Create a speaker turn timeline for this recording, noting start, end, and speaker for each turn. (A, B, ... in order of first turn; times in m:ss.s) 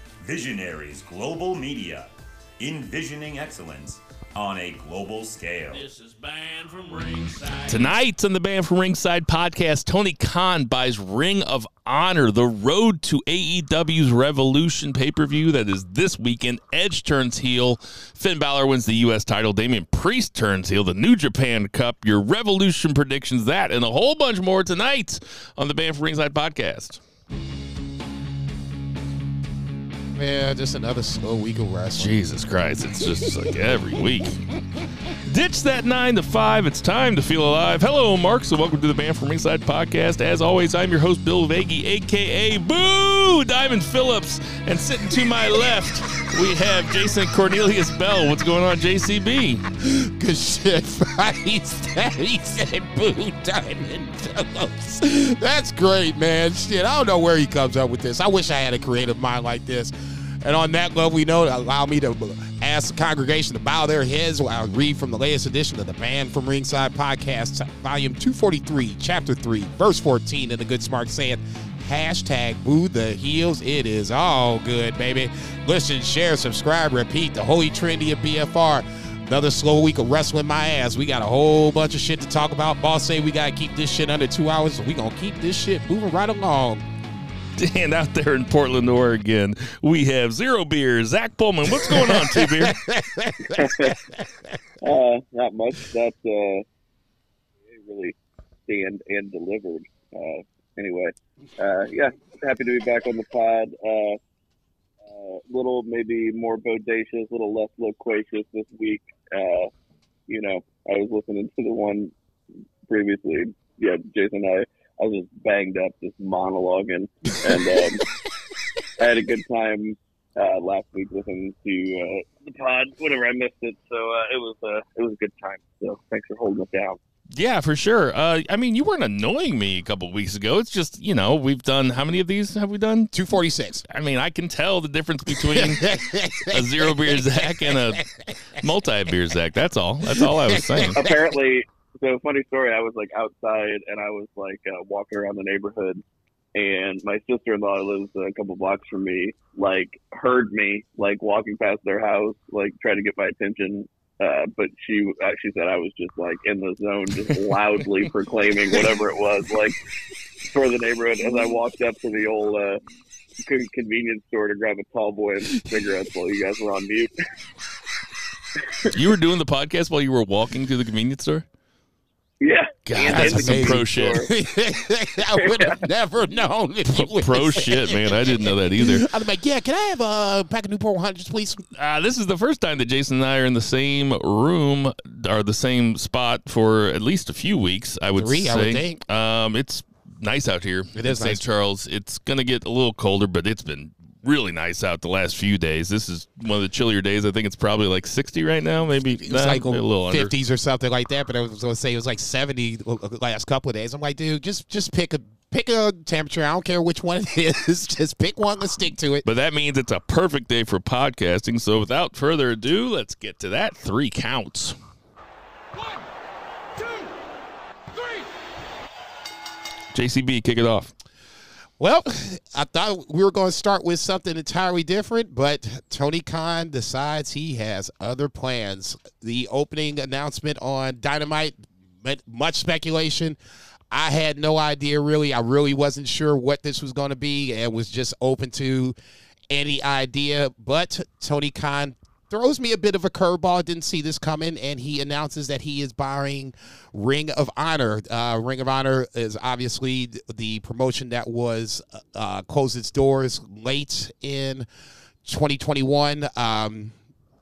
0:00.2-0:05.9 A
0:05.7-0:08.0 B
0:07.7-0:27.0 C
0:30.2-0:32.1 D
0:32.0-0:34.5 C
0:35.3-0:49.6 C
0:49.8-1:26.8 D
1:27.6-1:32.8 C
1:31.7-1:34.2 D
1:33.4-1:34.0 E
1:34.8-1:36.6 E
1:37.7-1:38.2 E
1:38.7-1:44.2 E
1:45.0-1:49.7 E
1:50.3-1:52.1 E
1:52.9-1:58.0 E
1:59.0-2:07.0 E
2:07.3-2:13.2 C
2:13.1-2:13.8 D
2:13.9-2:21.0 C
2:15.4-2:18.0 D
2:20.1-2:21.1 D
2:20.9-2:26.0 E
2:26.6-2:39.8 E
2:40.5-2:42.8 E
2:43.4-2:47.1 E
2:48.9-2:51.5 C
2:52.4-2:54.3 E
2:52.9-2:54.3 C
2:53.1-3:01.6 D
2:55.4-2:55.8 E
2:56.9-2:59.1 C
3:01.8-3:20.3 C
3:08.2-3:09.0 D
3:11.0-3:11.4 D
3:19.3-3:29.2 D
3:29.2-3:34.8 C
3:39.9-3:40.9 C
3:41.8-3:53.4 D
3:53.9-3:59.0 D
3:59.5-4:14.7 D
4:15.2-4:17.0 D